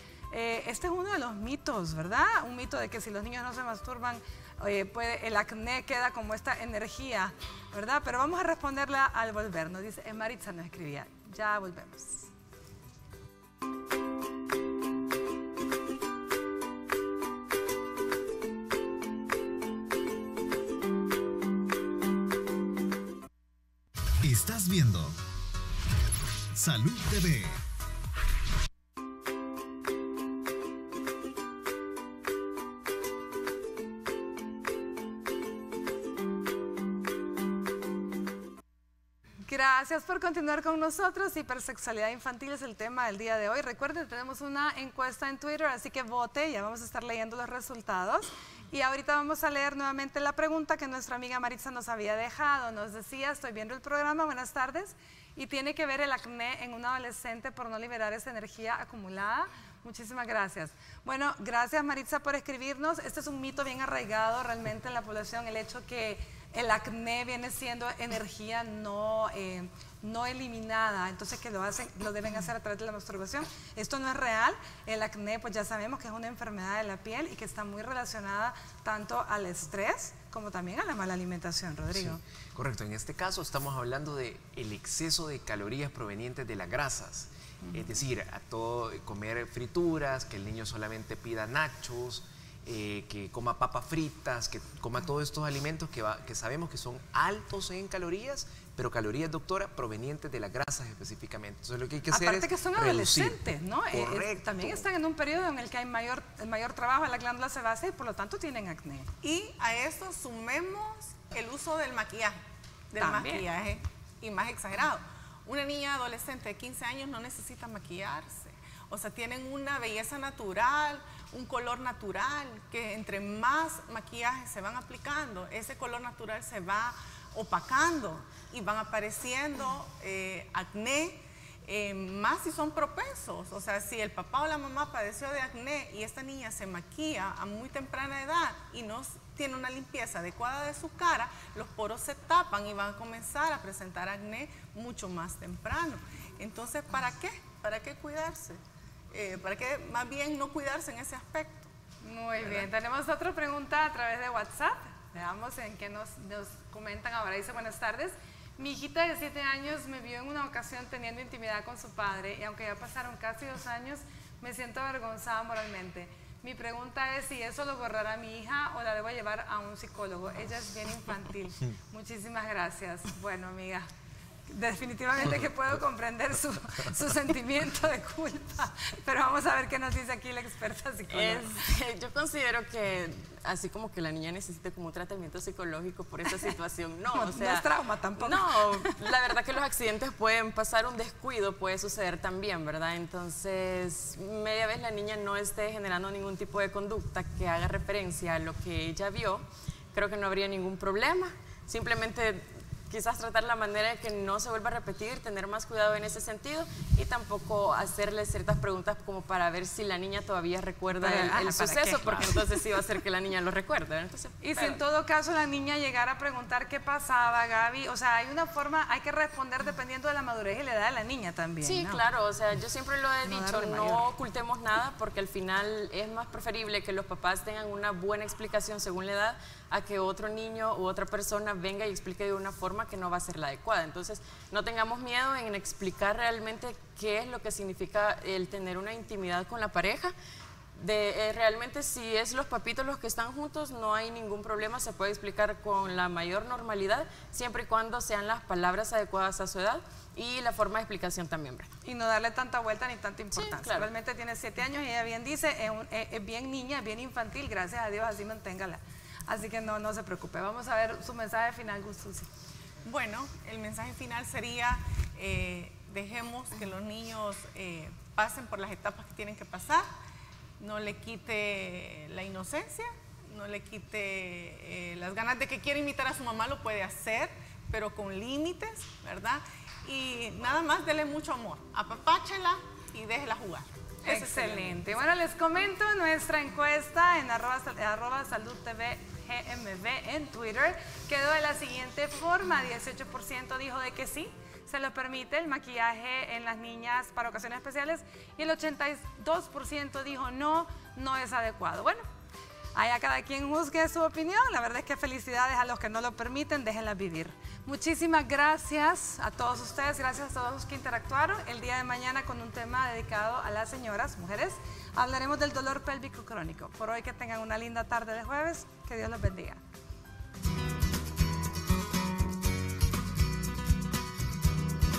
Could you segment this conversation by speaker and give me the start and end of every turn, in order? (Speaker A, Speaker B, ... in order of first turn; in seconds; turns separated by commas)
Speaker A: 0.3-12.3, Speaker B: 24.2-25.2, Speaker B: 26.5-27.6, Speaker A: 39.4-82.2, Speaker C: 81.9-104.9, Speaker A: 102.1-109.1, Speaker D: 109.2-112.4, Speaker D: 112.9-151.7, Speaker A: 113.0-113.4, Speaker A: 152.0-173.9, Speaker D: 152.4-152.7, Speaker A: 174.5-181.7, Speaker E: 181.1-187.7, Speaker A: 187.1-188.9, Speaker E: 188.2-214.8, Speaker A: 210.9-212.4, Speaker A: 214.4-222.0, Speaker E: 221.6-240.1, Speaker A: 223.2-224.1, Speaker E: 240.7-251.7, Speaker A: 251.8-262.3, Speaker E: 253.3-253.9, Speaker D: 262.8-269.9, Speaker D: 270.6-284.8, Speaker A: 284.0-302.0, Speaker A: 302.7-319.6